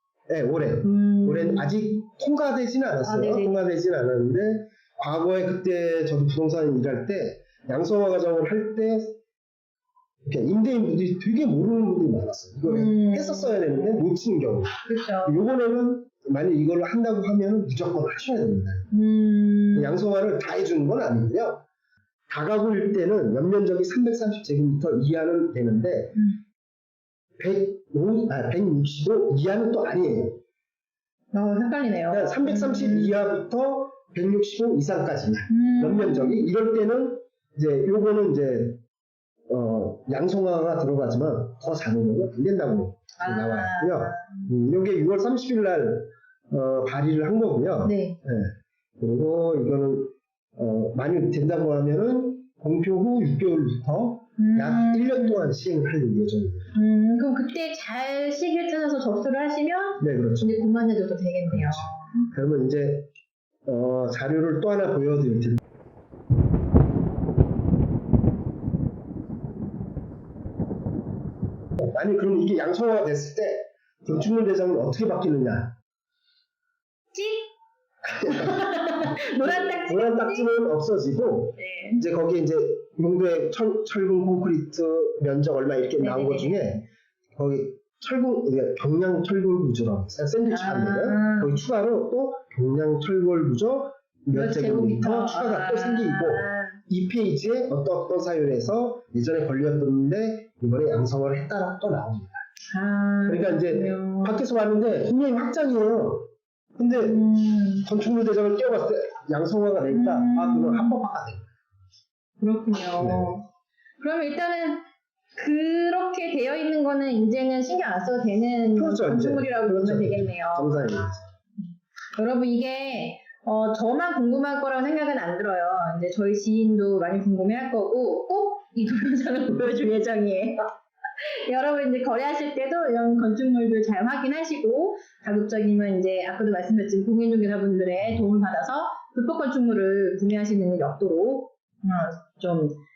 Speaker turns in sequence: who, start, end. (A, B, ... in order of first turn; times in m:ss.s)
0:00.3-0:09.2 A
0:00.8-0:01.8 B
0:03.0-0:03.6 B
0:10.2-0:14.7 A
0:12.6-0:14.1 B
0:14.8-0:15.4 B
0:15.2-0:18.9 A
0:18.9-0:20.0 B
0:19.8-0:21.6 A
0:22.3-0:26.2 A
0:27.4-0:30.4 A
0:31.3-0:33.2 B
0:32.1-0:38.8 A
0:35.5-0:36.5 B
0:39.5-0:56.7 A
0:43.2-0:44.5 B
0:47.8-0:48.2 B
0:54.4-0:55.5 B
0:56.8-1:02.3 B
1:00.0-1:00.7 A
1:01.5-1:03.1 A
1:03.7-1:05.6 A
1:11.8-1:15.7 A
1:17.1-1:17.5 B
1:18.2-1:26.8 A
1:18.2-1:20.6 B
1:21.6-1:22.0 B
1:26.0-1:26.8 B
1:27.4-1:42.4 A
1:30.5-1:31.6 B
1:34.3-1:36.8 B
1:42.7-1:44.4 B
1:43.3-1:47.3 A
1:47.0-1:47.9 B
1:47.8-1:51.5 A
1:49.9-1:51.0 B
1:52.4-1:53.4 B
1:53.0-1:53.4 A
1:54.0-1:54.8 B
1:55.4-2:10.6 B
1:58.8-2:01.3 A
2:11.2-2:22.8 B